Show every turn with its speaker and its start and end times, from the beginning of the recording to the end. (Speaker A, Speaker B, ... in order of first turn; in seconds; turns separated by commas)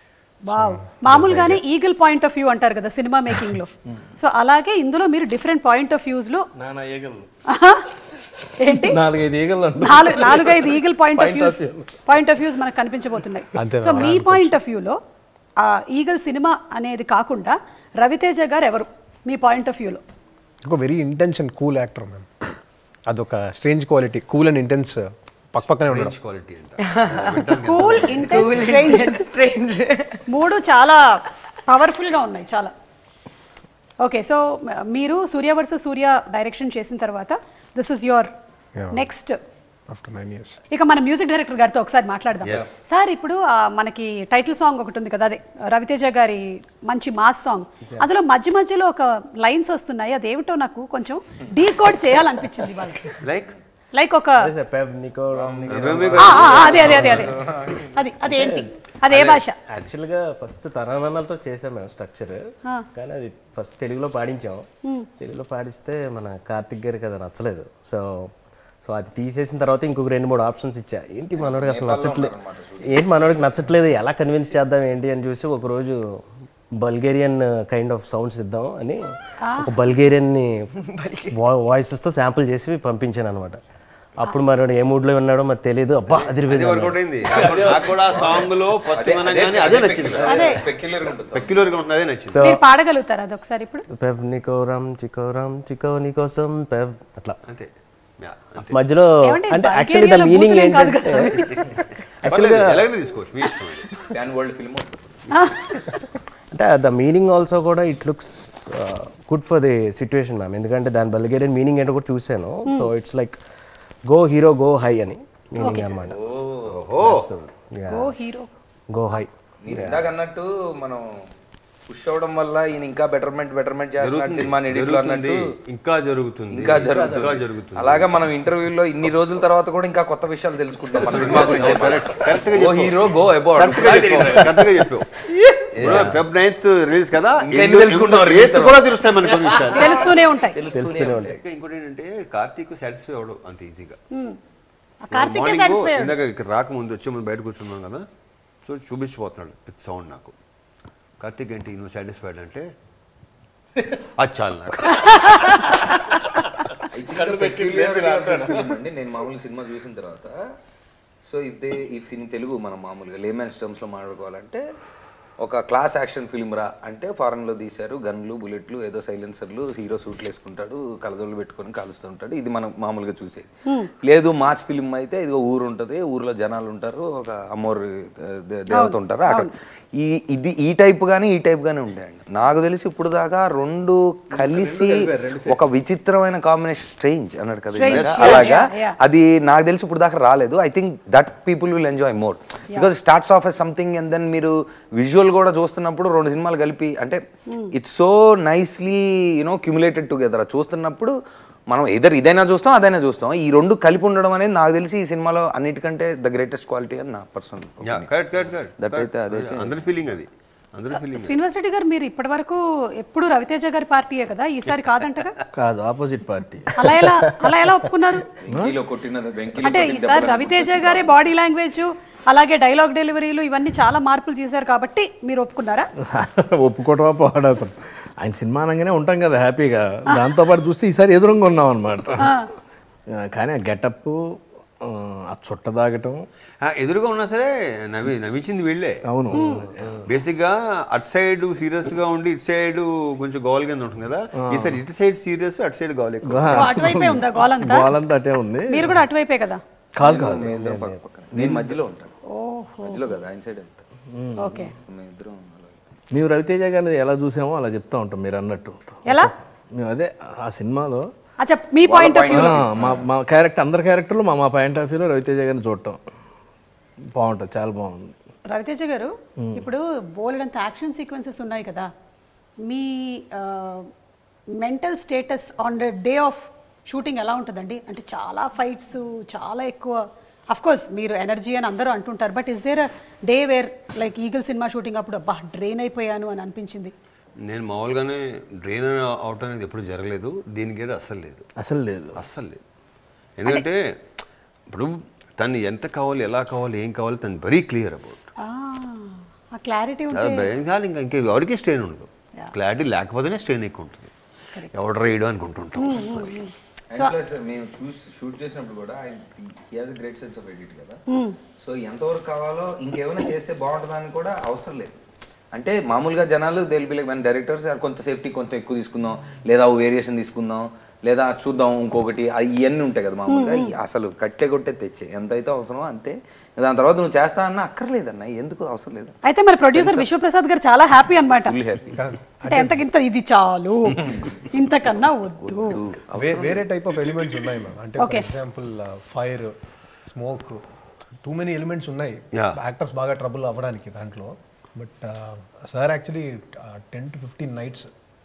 Speaker A: 0.5-6.5, Speaker B: 0.5-1.6, Speaker C: 6.6-7.3, Speaker A: 7.5-7.9, Speaker A: 8.6-9.0, Speaker C: 8.7-12.0, Speaker A: 9.8-15.0, Speaker B: 13.6-14.6, Speaker A: 15.6-20.0, Speaker B: 20.6-22.5, Speaker B: 23.1-26.2, Speaker D: 25.6-28.9, Speaker E: 26.8-30.2, Speaker A: 27.6-29.2, Speaker A: 30.3-32.7, Speaker A: 34.0-38.3, Speaker B: 38.8-39.1, Speaker A: 38.9-39.4, Speaker B: 39.9-40.6, Speaker A: 40.7-53.1, Speaker D: 42.4-42.7, Speaker D: 53.2-53.5, Speaker A: 54.0-54.5, Speaker F: 54.4-57.4, Speaker G: 55.3-57.9, Speaker D: 55.7-57.2, Speaker A: 56.2-57.3, Speaker A: 57.9-59.6, Speaker F: 58.2-58.7, Speaker D: 59.1-59.8, Speaker F: 59.7-64.7, Speaker F: 65.2-68.3, Speaker F: 68.8-76.2, Speaker G: 71.4-73.5, Speaker F: 76.8-80.7, Speaker A: 79.5-79.7, Speaker F: 81.3-83.6, Speaker F: 84.2-87.4, Speaker D: 86.1-90.7, Speaker C: 87.4-88.4, Speaker G: 88.2-91.7, Speaker A: 90.3-90.6, Speaker D: 91.3-92.4, Speaker F: 92.3-92.6, Speaker A: 92.4-93.9, Speaker F: 93.9-97.4, Speaker D: 97.5-98.8, Speaker F: 98.6-101.7, Speaker A: 99.2-101.7, Speaker F: 102.2-102.9, Speaker D: 102.2-103.9, Speaker G: 104.0-105.0, Speaker A: 105.3-105.6, Speaker F: 106.5-113.4, Speaker F: 114.1-116.2, Speaker A: 115.6-115.9, Speaker G: 115.8-116.7, Speaker D: 116.7-117.3, Speaker F: 117.0-118.1, Speaker A: 117.9-118.5, Speaker F: 118.9-120.1, Speaker G: 119.6-121.1, Speaker G: 121.9-125.5, Speaker D: 124.0-128.3, Speaker G: 126.5-134.7, Speaker C: 126.6-127.4, Speaker D: 130.9-133.0, Speaker C: 131.0-131.7, Speaker D: 133.6-135.1, Speaker C: 134.2-134.6, Speaker G: 135.7-136.2, Speaker C: 135.8-136.2, Speaker D: 135.8-140.2, Speaker G: 137.4-140.0, Speaker A: 139.7-140.6, Speaker G: 140.6-141.4, Speaker F: 140.7-141.4, Speaker D: 141.3-144.0, Speaker A: 145.1-146.2, Speaker D: 145.1-148.1, Speaker D: 148.6-150.3, Speaker D: 151.2-152.7, Speaker D: 154.2-155.7, Speaker A: 155.0-155.9, Speaker G: 156.9-160.4, Speaker C: 157.0-158.8, Speaker G: 161.2-164.6, Speaker G: 165.4-173.5, Speaker G: 174.0-197.2, Speaker A: 178.7-179.5, Speaker C: 184.3-185.6, Speaker A: 187.7-189.0, Speaker D: 187.9-188.6, Speaker G: 197.7-201.2, Speaker G: 201.7-208.1, Speaker D: 207.8-211.4, Speaker G: 208.8-209.8, Speaker A: 211.1-215.3, Speaker C: 215.6-217.5, Speaker A: 216.8-218.3, Speaker G: 218.4-221.1, Speaker C: 218.5-218.8, Speaker A: 219.6-225.9, Speaker C: 226.1-232.4, Speaker A: 232.2-232.5, Speaker C: 233.3-234.2, Speaker C: 234.8-236.2, Speaker D: 236.6-239.5, Speaker C: 239.1-240.1, Speaker A: 239.4-239.6, Speaker D: 240.1-246.9, Speaker C: 244.4-244.8, Speaker C: 246.2-249.1, Speaker A: 246.5-247.9, Speaker A: 248.7-249.6, Speaker C: 250.0-250.8, Speaker G: 250.0-252.1, Speaker F: 250.3-250.9, Speaker C: 251.3-251.8, Speaker A: 252.3-253.0, Speaker G: 252.8-253.8, Speaker C: 254.1-254.6, Speaker A: 254.4-254.7, Speaker G: 254.7-255.9, Speaker C: 256.1-261.1, Speaker A: 259.1-259.3, Speaker A: 261.4-262.6, Speaker G: 261.8-263.1, Speaker C: 262.3-266.0, Speaker C: 267.1-268.2, Speaker A: 268.5-271.9, Speaker C: 269.4-269.7, Speaker A: 272.7-273.9, Speaker A: 274.6-286.9, Speaker D: 287.5-291.5, Speaker C: 291.6-292.2, Speaker D: 292.2-292.6, Speaker D: 293.4-293.9, Speaker D: 294.7-298.2, Speaker A: 298.4-300.5, Speaker D: 300.1-304.1, Speaker D: 304.7-306.3, Speaker A: 305.8-307.1, Speaker G: 306.9-311.0, Speaker A: 311.1-311.4, Speaker G: 311.6-315.0, Speaker G: 315.5-329.2, Speaker A: 323.3-323.7, Speaker A: 329.2-331.6, Speaker G: 329.7-330.1, Speaker G: 331.5-332.0, Speaker B: 331.9-332.8, Speaker A: 332.5-335.8, Speaker G: 334.0-334.4, Speaker G: 335.5-336.6, Speaker B: 336.1-340.6, Speaker A: 338.0-338.3, Speaker B: 341.2-347.9, Speaker D: 342.3-342.6